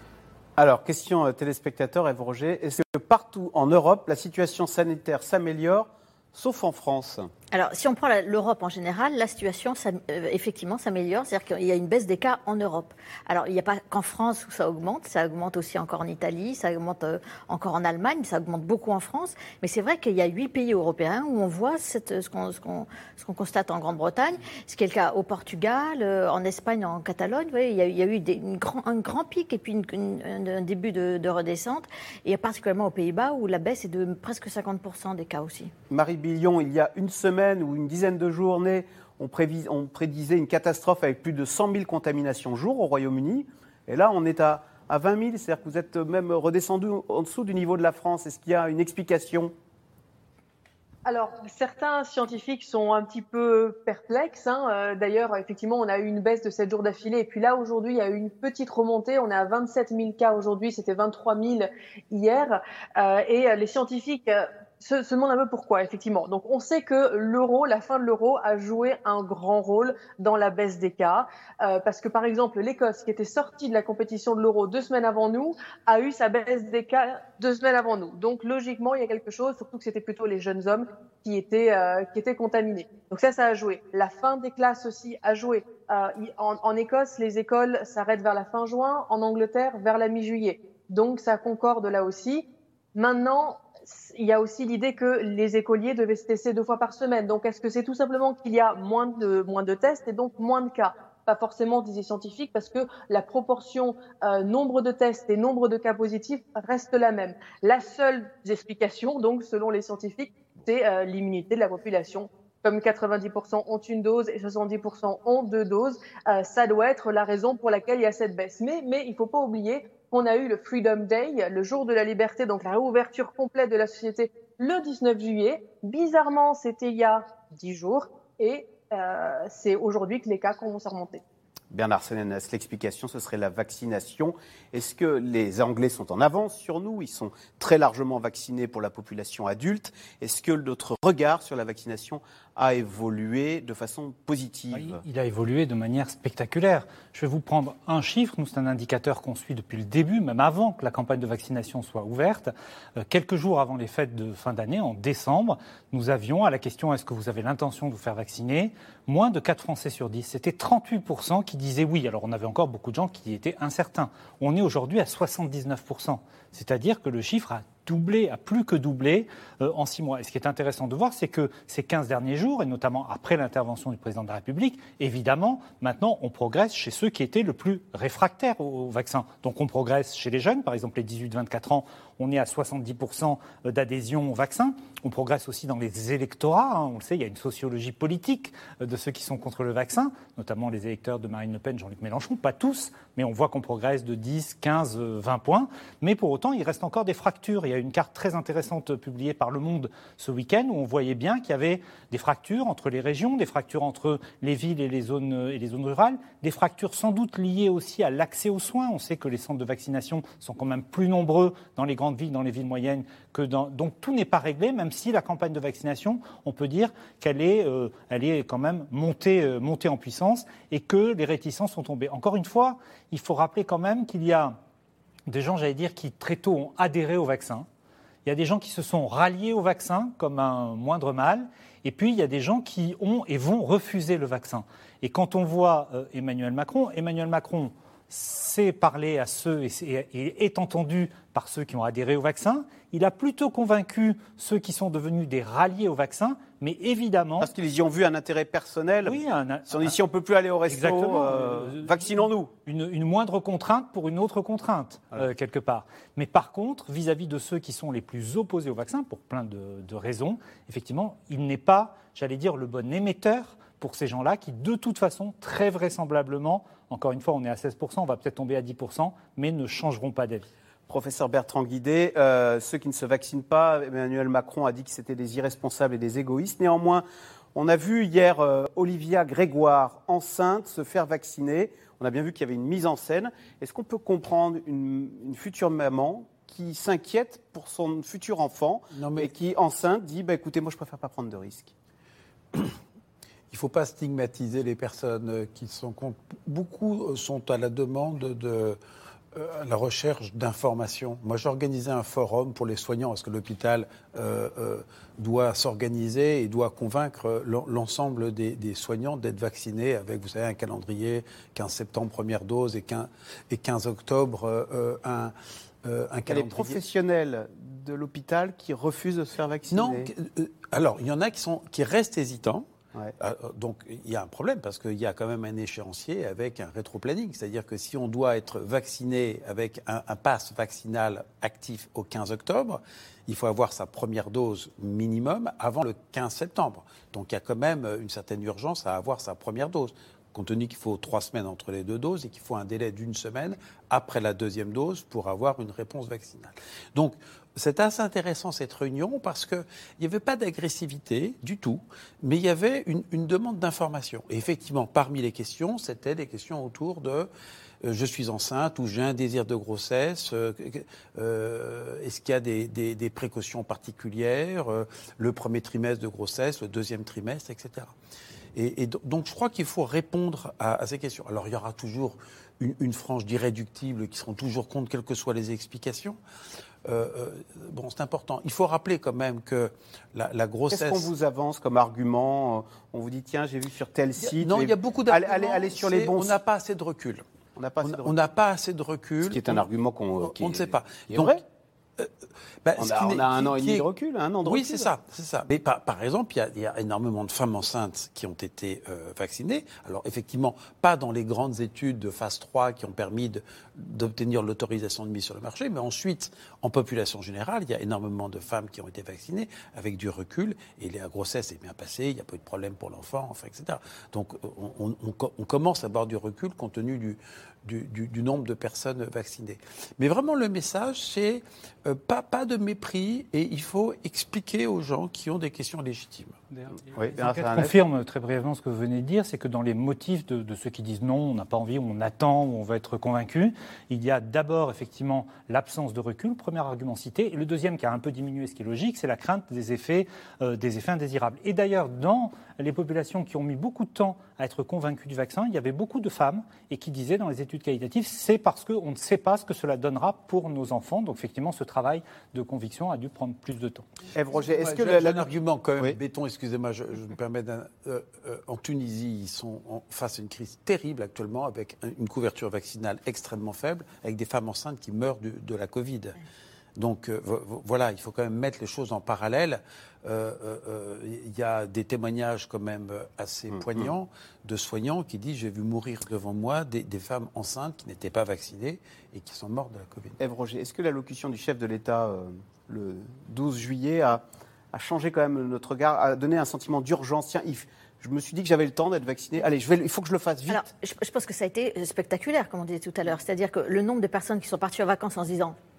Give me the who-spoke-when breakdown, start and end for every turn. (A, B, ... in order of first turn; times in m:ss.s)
0:00.6-0:07.3 A
0:07.5-0:35.7 B
0:35.9-0:49.5 A
0:51.0-1:32.4 C
1:32.9-2:11.2 C
2:11.7-2:25.0 A
2:24.7-3:44.6 D
3:45.3-3:47.7 D
3:48.2-4:07.5 D
4:07.4-4:12.5 A
4:09.0-4:09.9 D
4:10.7-4:30.5 D
4:30.9-4:37.0 A
4:37.5-4:51.7 A
4:48.9-4:49.3 E
4:53.5-4:58.8 E
4:59.3-5:16.8 E
5:16.3-5:20.1 A
5:19.7-5:22.6 E
5:23.2-5:57.3 E
5:57.8-6:07.9 E
6:08.5-6:16.2 E
6:16.8-6:21.1 E
6:20.7-6:26.3 A
6:24.2-6:27.2 E
6:27.6-6:28.2 A
6:27.8-6:29.6 E
6:29.2-6:31.4 A
6:30.2-6:31.4 E
6:32.6-6:33.9 E
6:32.8-6:34.9 A
6:34.4-7:06.4 E
7:06.5-7:33.8 D
7:06.9-7:07.7 A
7:34.1-7:36.0 A
7:34.5-7:46.2 E
7:46.8-8:00.2 E
7:53.5-7:53.9 A
8:00.2-8:04.2 A
8:04.7-8:10.6 A
8:10.5-8:15.6 B